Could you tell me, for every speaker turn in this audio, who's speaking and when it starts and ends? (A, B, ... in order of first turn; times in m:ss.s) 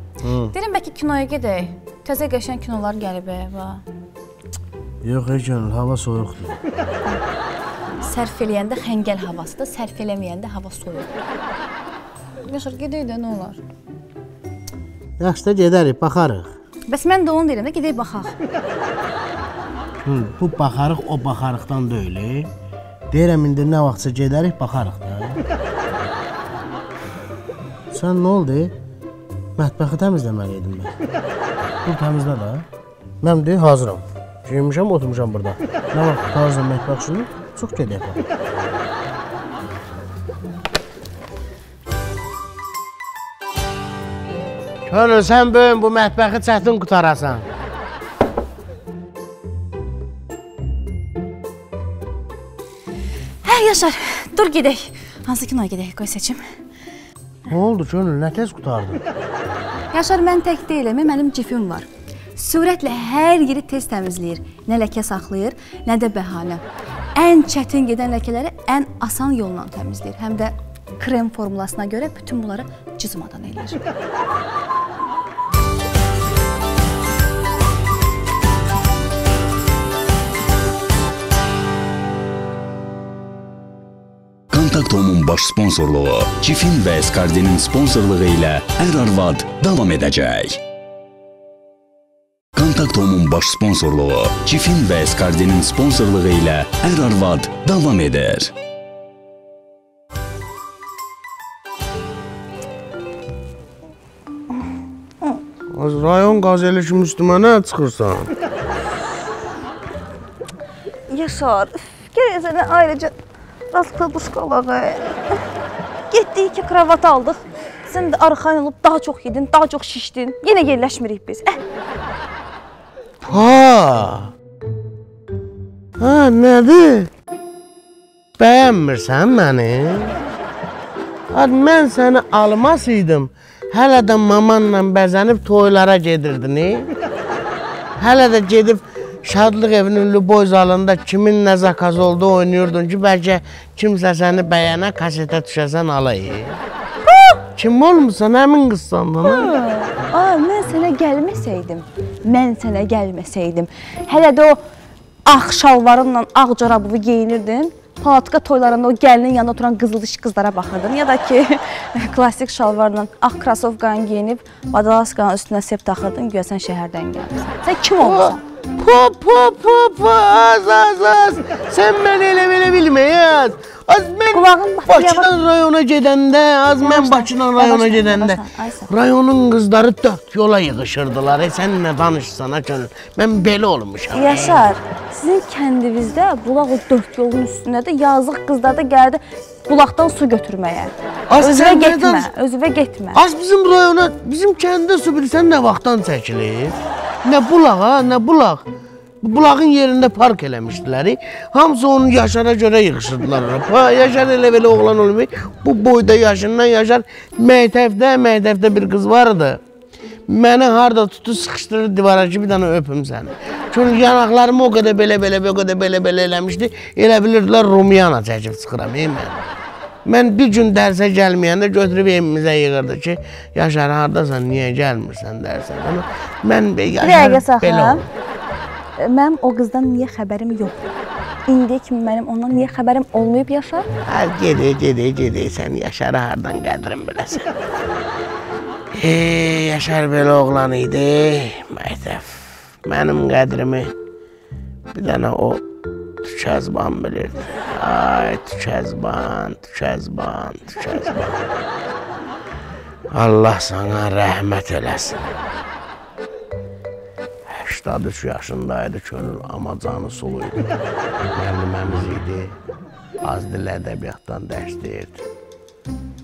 0:00.2-0:00.5 A
0:00.5-0:03.8 B
0:05.0-0:06.6 A
0:08.0-0:11.2 B
0:12.4-0:13.6 B
0:15.2-0:16.5 A
0:16.9-0:18.4 B
0:20.0-0:22.5 A
0:23.1-0:25.4 A
0:27.9-0:28.8 A
0:29.6-0:31.0 A
0:31.8-0:32.7 A
0:33.2-0:38.2 A
0:44.9-0:47.5 A
0:53.4-0:56.4 B
0:57.5-0:59.0 A
0:59.9-1:06.6 B
1:07.2-1:13.8 B
1:24.5-1:30.6 C
1:32.6-1:38.5 C
1:45.7-1:48.3 A
1:51.1-1:53.1 B
1:53.7-1:55.2 B
1:56.1-2:01.6 B
2:03.2-2:04.3 A
2:06.0-2:07.1 A
2:08.4-2:10.2 A
2:11.3-2:16.9 A
2:18.0-2:26.6 A
2:27.5-2:29.6 A
2:29.2-2:34.6 B
2:35.3-2:48.4 B
2:48.0-3:04.6 A
2:54.3-2:55.3 B
2:56.8-2:58.9 B
3:04.1-3:13.2 B
3:11.3-3:12.3 A
3:13.1-3:18.7 A
3:19.2-3:29.6 A
3:30.3-3:39.4 A
3:40.0-3:48.1 A
3:47.0-3:48.0 B
3:49.0-3:50.9 B
3:51.5-3:53.9 B
3:54.0-3:57.5 A
3:58.9-4:04.0 A
4:04.9-4:05.6 A
4:06.2-4:11.4 A
4:13.1-4:15.3 A
4:17.5-4:20.7 A
4:21.3-4:22.6 A
4:23.2-4:25.3 A